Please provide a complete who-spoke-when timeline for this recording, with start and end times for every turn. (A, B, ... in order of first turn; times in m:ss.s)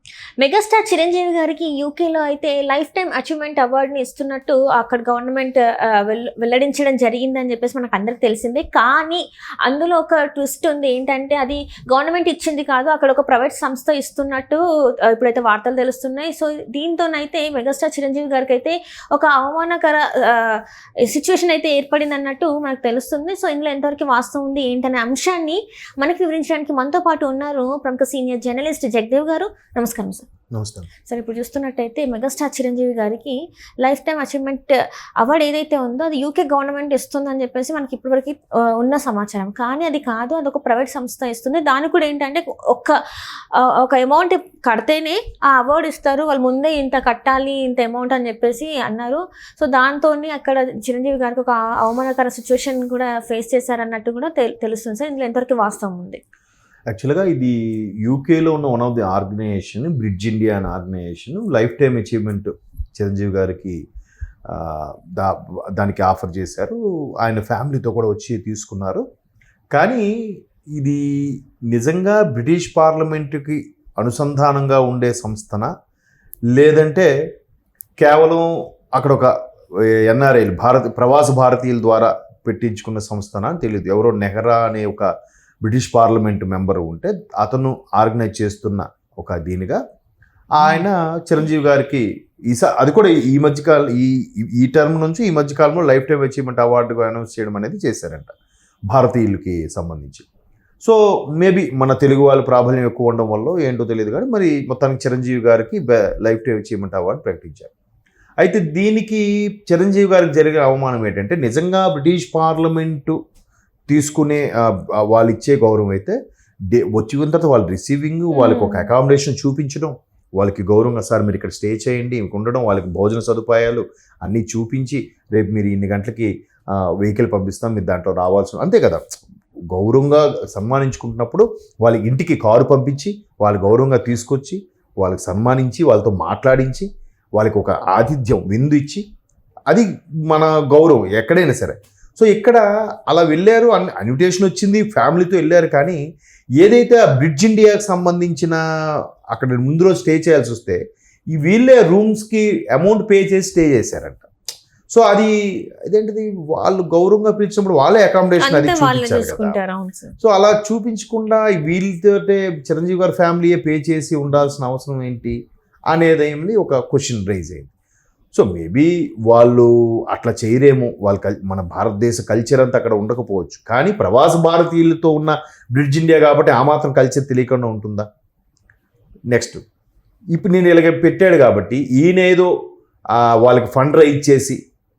0:00.4-0:30.2 A
0:30.5-0:30.9 B
0:31.1-0:43.0 A
0:43.5-0:56.2 A
0:56.9-1:03.8 B
1:04.5-1:09.0 B
1:09.7-1:10.1 B
1:10.8-1:15.7 B
1:16.5-1:17.1 B
1:18.0-1:19.3 B
1:20.1-1:25.1 B
1:25.6-1:29.8 B
1:30.6-1:38.3 B
1:30.6-1:30.9 A
1:38.9-1:40.2 B
1:40.8-1:47.7 B
1:48.4-1:53.2 B
1:53.9-1:56.2 B
1:56.7-2:06.3 B
1:58.3-1:58.8 A
2:07.0-2:19.0 B
2:19.7-2:26.0 B
2:26.6-2:28.6 B
2:29.3-2:30.8 B
2:31.3-2:34.2 B
2:34.9-2:35.3 B
2:35.8-2:39.6 B
2:38.4-2:40.1 A
2:40.2-2:45.4 B
2:45.9-2:47.7 B
2:48.3-2:58.1 B
2:59.3-2:59.6 B
3:00.3-3:02.5 B
3:03.1-3:04.6 B